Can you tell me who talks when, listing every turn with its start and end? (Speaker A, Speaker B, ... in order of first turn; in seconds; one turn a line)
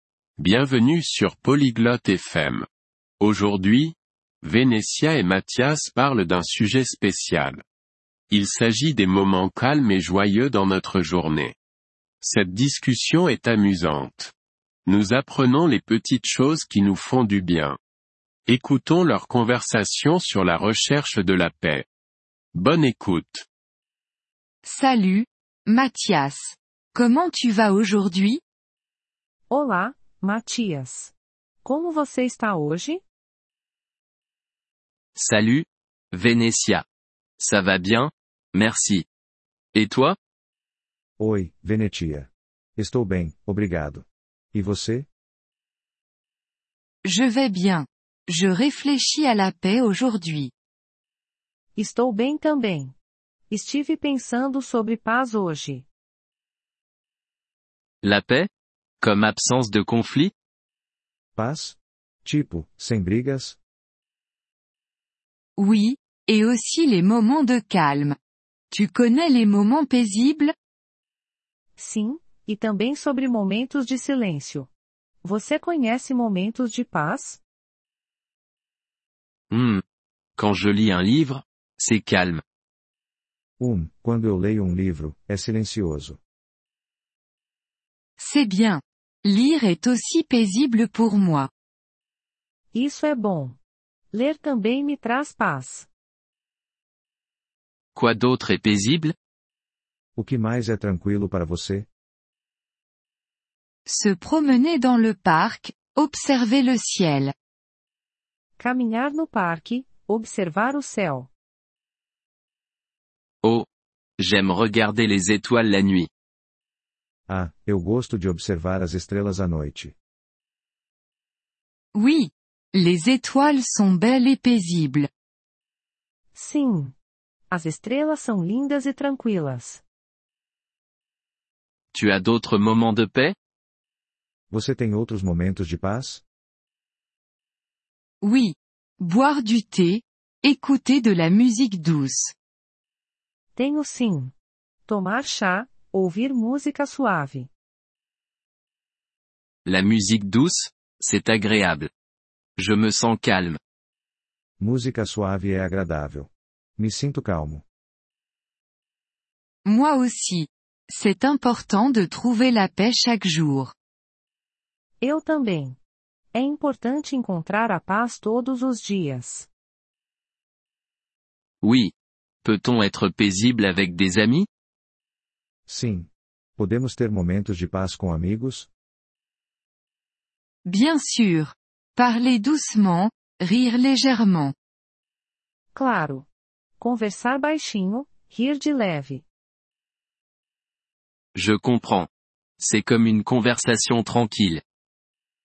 Speaker A: 0.4-2.7
Speaker A: 3.2-7.6
Speaker A: 8.3-11.6
Speaker A: 12.2-14.3
Speaker A: 14.8-17.8
Speaker A: 18.5-21.8
Speaker A: 22.5-23.4
Speaker B: 24.6-28.4
Speaker C: 29.5-33.0
Speaker D: 35.1-36.8
Speaker D: 37.4-39.0
Speaker D: 39.7-40.1
Speaker E: 41.2-45.0
Speaker B: 47.0-50.5
Speaker C: 51.8-52.9
Speaker C: 53.5-55.8
Speaker D: 58.0-58.5
Speaker D: 59.0-60.3
Speaker E: 61.4-63.6
Speaker B: 65.5-68.2
Speaker B: 68.7-70.5
Speaker C: 71.8-74.7
Speaker C: 75.2-77.4
Speaker D: 79.5-79.8
Speaker D: 80.4-82.4
Speaker E: 83.6-86.2
Speaker B: 88.2-91.5
Speaker C: 92.7-93.6
Speaker C: 94.1-95.9
Speaker D: 97.9-99.1
Speaker E: 100.2-101.8
Speaker B: 103.8-107.3
Speaker C: 108.6-111.3
Speaker D: 114.2-116.1
Speaker E: 117.3-119.9
Speaker B: 121.9-125.1
Speaker C: 126.3-126.9
Speaker C: 127.5-129.8
Speaker D: 131.9-133.3
Speaker E: 134.5-136.2
Speaker B: 138.2-142.3
Speaker C: 143.5-144.3
Speaker C: 144.9-147.5
Speaker D: 149.7-151.9
Speaker D: 152.6-153.6
Speaker E: 154.6-157.6
Speaker B: 159.6-163.7
Speaker C: 165.0-165.8
Speaker C: 166.3-169.5
Speaker D: 171.6-171.9
Speaker D: 172.4-174.5
Speaker E: 175.7-178.7
Speaker B: 180.6-184.5
Speaker C: 185.7-186.2
Speaker C: 186.8-189.2
Speaker D: 191.3-192.1
Speaker D: 192.6-194.6